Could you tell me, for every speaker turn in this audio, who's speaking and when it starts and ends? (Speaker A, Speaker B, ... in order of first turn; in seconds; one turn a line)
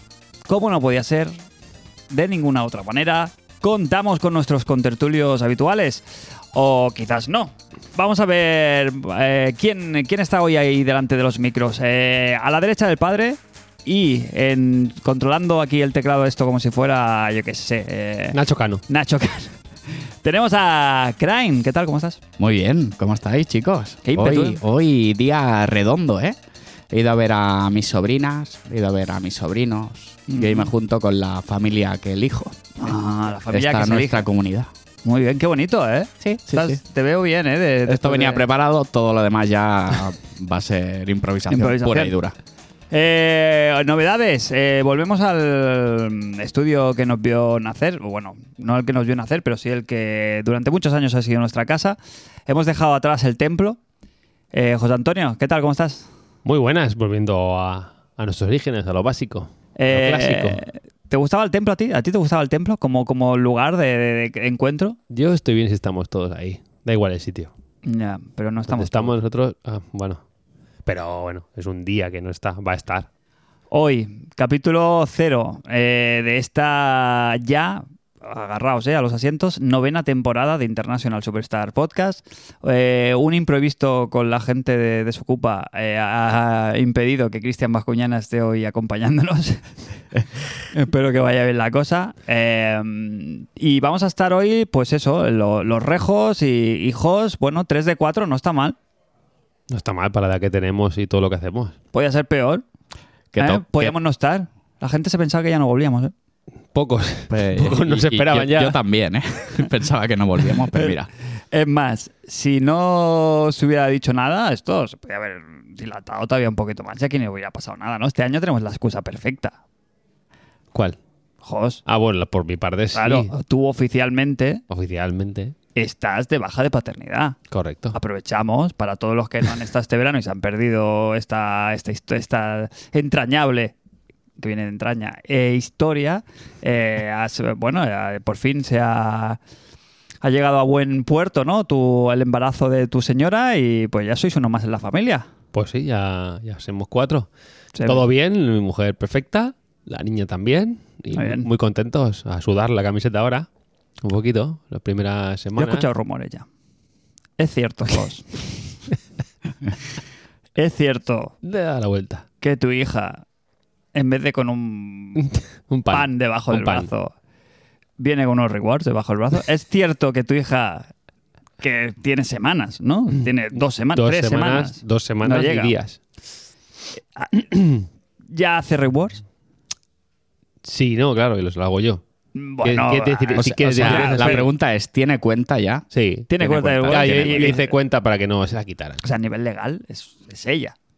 Speaker A: 0.5-1.4
Speaker A: 2.1-19.5
Speaker B: 18.3-18.8
Speaker A: 20.2-22.2
Speaker C: 22.4-26.4
Speaker A: 24.0-24.6
Speaker C: 26.9-33.0
Speaker A: 30.3-30.7
Speaker A: 32.8-34.2
Speaker C: 33.5-34.7
Speaker A: 35.0-38.4
Speaker C: 36.2-36.8
Speaker C: 37.9-42.3
Speaker A: 41.5-42.1
Speaker A: 42.9-53.8
Speaker A: 54.5-56.1
Speaker B: 56.4-60.6
Speaker A: 59.8-65.0
Speaker B: 65.1-67.5
Speaker A: 67.8-69.2
Speaker B: 68.7-70.2
Speaker B: 70.8-73.1
Speaker A: 73.7-89.7
Speaker A: 90.7-98.8
Speaker B: 99.7-101.8
Speaker A: 101.9-102.6
Speaker C: 103.3-103.9
Speaker A: 103.3-106.1
Speaker B: 106.7-108.8
Speaker C: 107.3-111.1
Speaker A: 111.5-119.6
Speaker A: 121.4-121.8
Speaker B: 121.8-123.3
Speaker A: 122.9-124.6
Speaker B: 124.7-125.5
Speaker A: 125.7-127.4
Speaker B: 127.5-127.9
Speaker A: 127.9-133.7
Speaker A: 134.4-139.4
Speaker A: 140.2-145.3
Speaker B: 145.5-147.3
Speaker A: 147.7-148.0
Speaker B: 147.8-153.5
Speaker A: 151.1-151.5
Speaker B: 154.0-155.9
Speaker A: 155.6-156.4
Speaker A: 157.4-158.5
Speaker A: 160.6-161.3
Speaker B: 161.4-162.2
Speaker A: 162.4-163.2
Speaker A: 163.9-165.3
Speaker B: 165.2-166.9
Speaker A: 165.9-167.1
Speaker A: 168.0-170.9
Speaker A: 171.6-175.7
Speaker B: 173.9-176.0
Speaker A: 177.2-177.5
Speaker A: 178.3-179.2
Speaker B: 180.6-182.0
Speaker A: 182.3-184.4
Speaker B: 182.6-184.4
Speaker C: 183.4-187.6
Speaker B: 185.9-186.3
Speaker A: 186.3-187.7
Speaker B: 186.9-189.0
Speaker A: 189.0-190.7